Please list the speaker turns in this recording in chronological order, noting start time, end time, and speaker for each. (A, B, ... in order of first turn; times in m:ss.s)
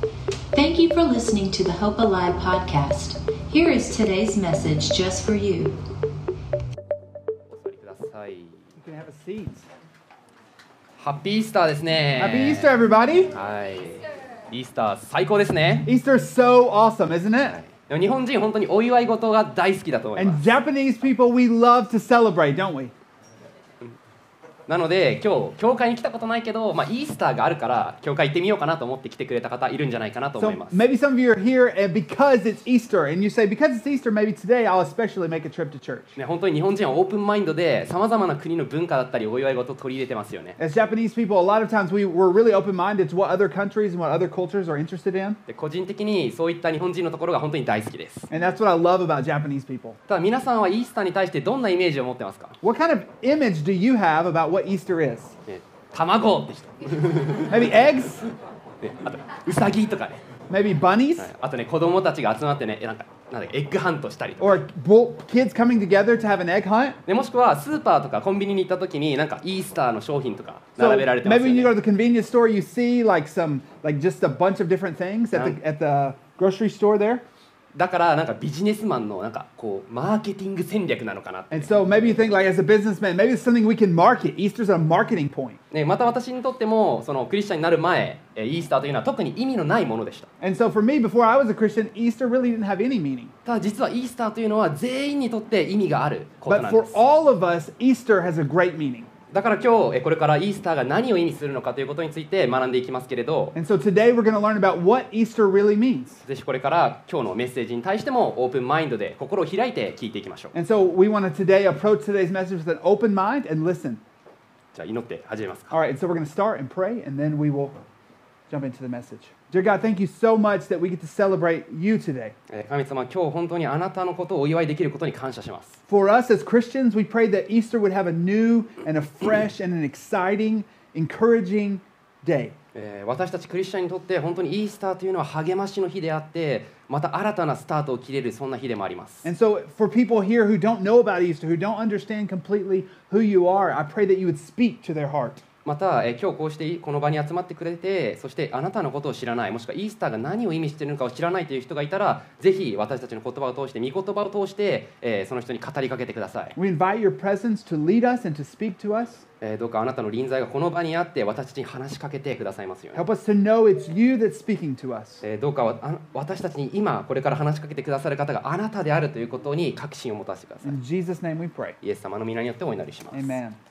0:00.5-0:05.8 A
0:07.5-0:08.7 B
0:08.8-0:09.7 C
0:11.0-0:12.8 B
0:12.2-0:13.3 C
0:13.3-0:15.9 B
0:15.8-0:17.6 C
0:17.4-0:20.4 B
0:20.2-0:22.9 C
0:24.7-0:30.8 B
0:30.4-0:36.1 C
0:36.2-0:40.6 B
0:40.6-0:45.4 C
0:45.5-0:48.3 B
0:48.3-0:50.0 C
0:50.1-0:52.6 B
0:52.6-0:55.4 C
0:55.5-0:57.7 B
0:57.5-0:58.2 C
0:58.8-1:00.2 B
1:00.5-1:01.3 C
1:01.2-1:04.6 B
1:04.4-1:07.0 C
1:07.0-1:11.7 B
1:10.8-1:17.2 C
1:15.3-1:15.6 B
1:17.7-1:21.7 B
1:21.5-1:25.6 C
1:25.7-1:30.3 B
1:30.4-1:33.3 C
1:33.4-1:37.0 B
1:36.5-1:39.1 C
1:39.3-1:43.6 B
1:43.5-1:46.2 C
1:46.2-1:50.5 B
1:50.5-1:54.0 C
1:54.7-1:55.7 B
1:55.7-1:57.8 C
1:58.5-2:02.3 C
2:02.5-2:05.8 B
2:05.9-2:12.5 C
2:12.7-2:19.3 B
2:19.2-2:25.4 C
2:25.6-2:36.6 B
2:36.6-2:39.2 C
2:39.4-2:43.0 B
2:42.9-2:45.2 C
2:45.2-2:50.8 B
2:50.6-2:51.8 C
2:51.8-2:53.4 B
2:53.1-2:53.6 C